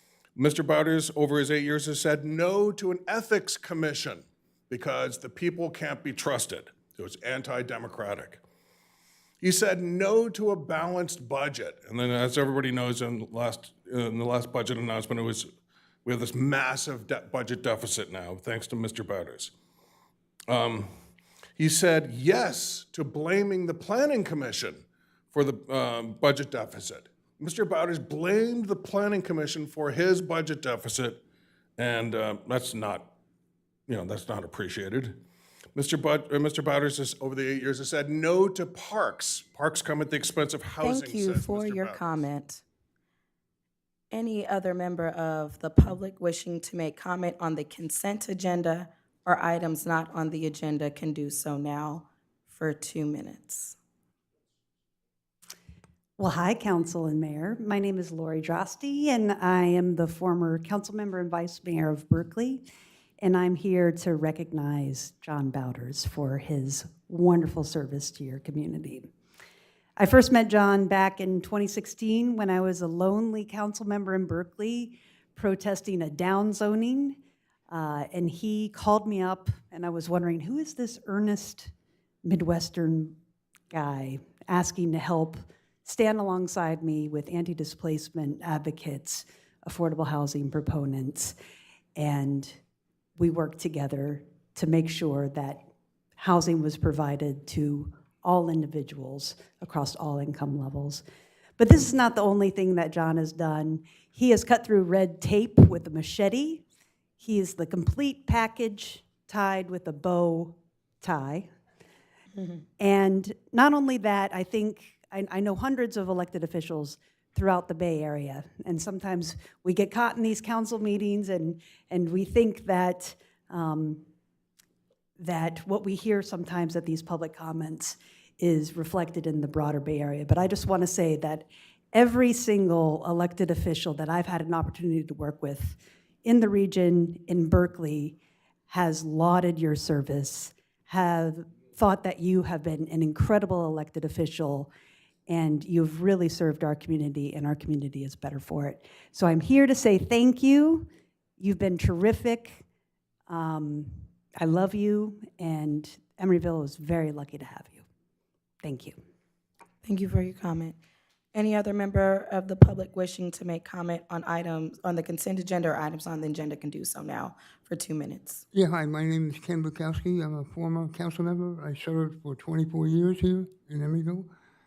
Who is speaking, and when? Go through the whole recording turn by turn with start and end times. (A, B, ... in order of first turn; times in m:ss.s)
0:00.3-0:08.4 A
0:09.4-0:15.5 A
0:16.0-0:19.5 A
0:20.5-0:20.9 A
0:21.6-0:31.2 A
0:31.8-0:33.1 A
0:33.9-0:35.2 A
0:35.7-0:42.0 A
0:40.8-0:42.6 B
0:44.1-0:53.8 B
0:56.2-1:02.6 C
1:03.2-1:09.1 C
1:10.0-1:17.2 C
1:17.7-1:21.7 C
1:22.2-1:23.2 C
1:23.7-1:31.4 C
1:32.0-1:32.6 C
1:33.2-1:35.6 C
1:36.2-1:41.0 C
1:41.6-1:46.6 C
1:47.2-1:51.5 C
1:52.3-1:52.6 B
1:52.8-2:04.0 C
2:05.2-2:18.2 C
2:18.7-2:24.7 C
2:25.3-2:30.9 C
2:31.4-2:32.6 C
2:33.3-2:37.8 C
2:38.6-2:39.0 C
2:39.8-2:40.8 B
2:41.3-2:48.4 B
2:48.5-2:54.3 D